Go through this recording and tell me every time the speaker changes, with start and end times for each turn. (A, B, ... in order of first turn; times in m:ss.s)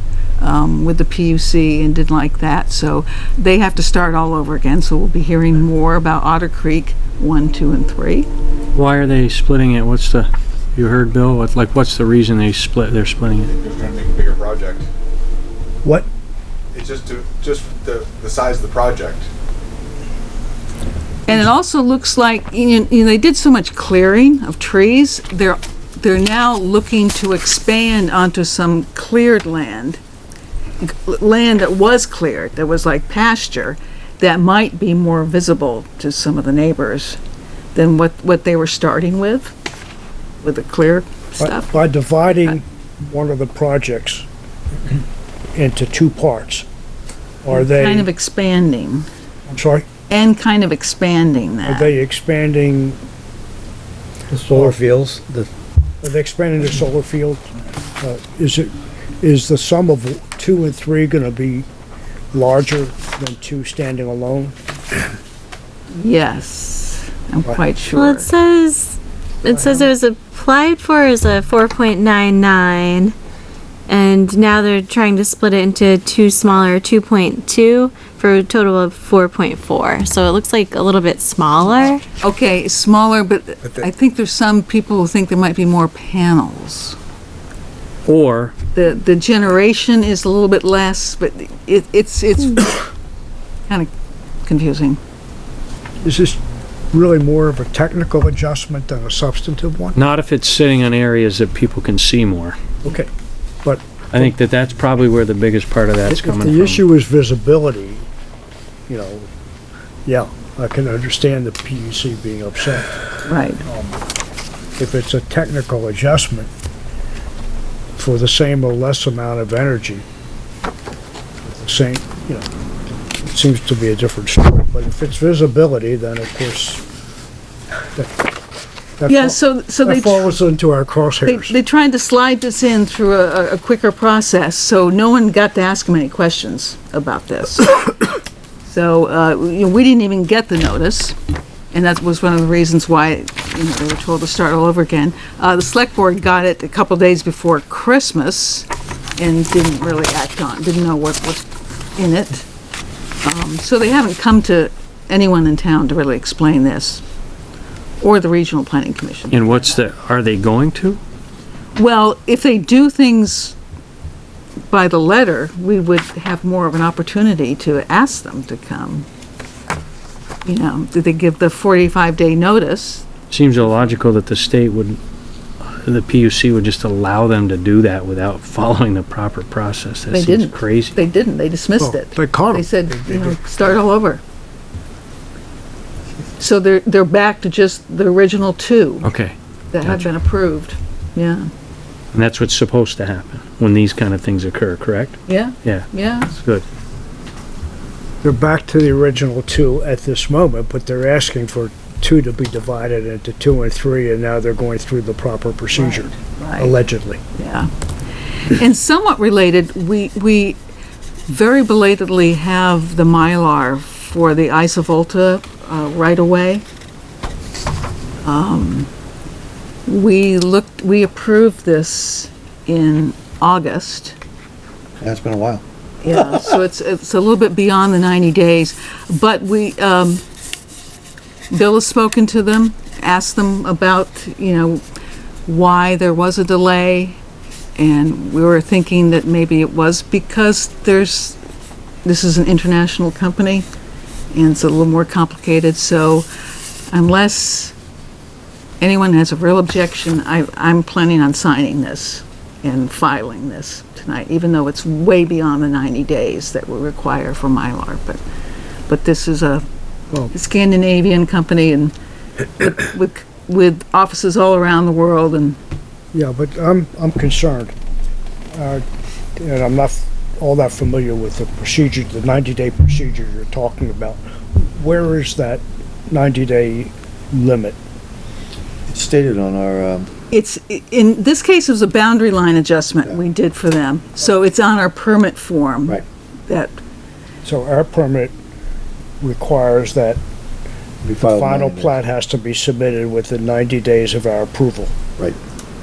0:00.4-0:08.3 A
0:08.7-0:13.5 B
0:13.5-0:14.8 C
0:16.7-0:19.2 C
0:21.3-0:30.0 A
0:30.8-0:37.2 A
0:37.7-0:39.6 A
0:40.4-0:41.7 A
0:41.4-0:44.3 D
0:45.6-0:46.7 D
0:47.4-0:48.1 D
0:47.5-0:49.1 A
0:49.5-0:49.9 D
0:50.1-0:52.0 A
0:51.6-0:53.0 D
0:54.3-0:55.5 E
0:54.5-0:54.8 D
0:56.0-0:57.4 D
0:58.0-1:01.7 D
1:02.3-1:04.6 D
1:05.9-1:08.3 A
1:08.0-1:13.1 F
1:13.9-1:22.0 F
1:22.2-1:27.0 A
1:28.0-1:28.5 B
1:28.7-1:32.8 A
1:34.4-1:35.0 A
1:36.0-1:36.4 D
1:36.9-1:40.0 D
1:39.9-1:42.6 B
1:42.8-1:43.1 D
1:43.6-1:44.3 D
1:44.1-1:46.8 B
1:46.1-1:48.0 D
1:48.9-1:49.3 D
1:50.0-1:52.9 D
1:53.2-1:53.6 A
1:54.8-1:56.5 D
1:58.0-2:00.0 D
2:01.4-2:02.5 D
2:03.2-2:06.8 D
2:08.0-2:08.2 D
2:09.0-2:11.5 D
2:09.1-2:10.3 A
2:11.2-2:18.0 A
2:18.6-2:21.2 A
2:21.7-2:32.5 A
2:33.2-2:37.0 A
2:38.0-2:39.6 A
2:39.3-2:41.0 B
2:41.8-2:43.6 A
2:44.7-2:49.1 A
2:50.4-2:53.1 A
2:53.3-2:55.0 B
2:55.6-3:01.0 B
3:00.1-3:04.2 A
3:01.8-3:03.4 D
3:06.4-3:09.1 A
3:09.0-3:10.1 B
3:09.7-3:11.5 A
3:12.1-3:16.6 B
3:15.3-3:16.3 A
3:18.2-3:27.2 D
3:25.7-3:26.8 A
3:27.3-3:27.7 A
3:28.5-3:30.6 A
3:31.3-3:36.6 A
3:38.2-3:38.9 A
3:39.9-3:44.2 A
3:45.0-3:45.6 E
3:46.0-3:50.2 A
3:51.5-3:54.8 A
3:55.5-3:57.2 A
3:57.8-4:01.4 A
4:02.0-4:03.7 A
4:04.3-4:06.3 A
4:06.9-4:07.8 A
4:08.8-4:18.2 A
4:18.9-4:19.6 A
4:20.3-4:21.9 A
4:22.6-4:25.6 A
4:26.1-4:27.7 D
4:28.5-4:28.8 D
4:29.4-4:37.8 D
4:38.9-4:40.1 E
4:40.3-4:46.8 A
4:47.4-4:48.3 D
4:49.2-4:50.2 D
4:51.0-4:52.0 E
4:51.2-4:55.0 D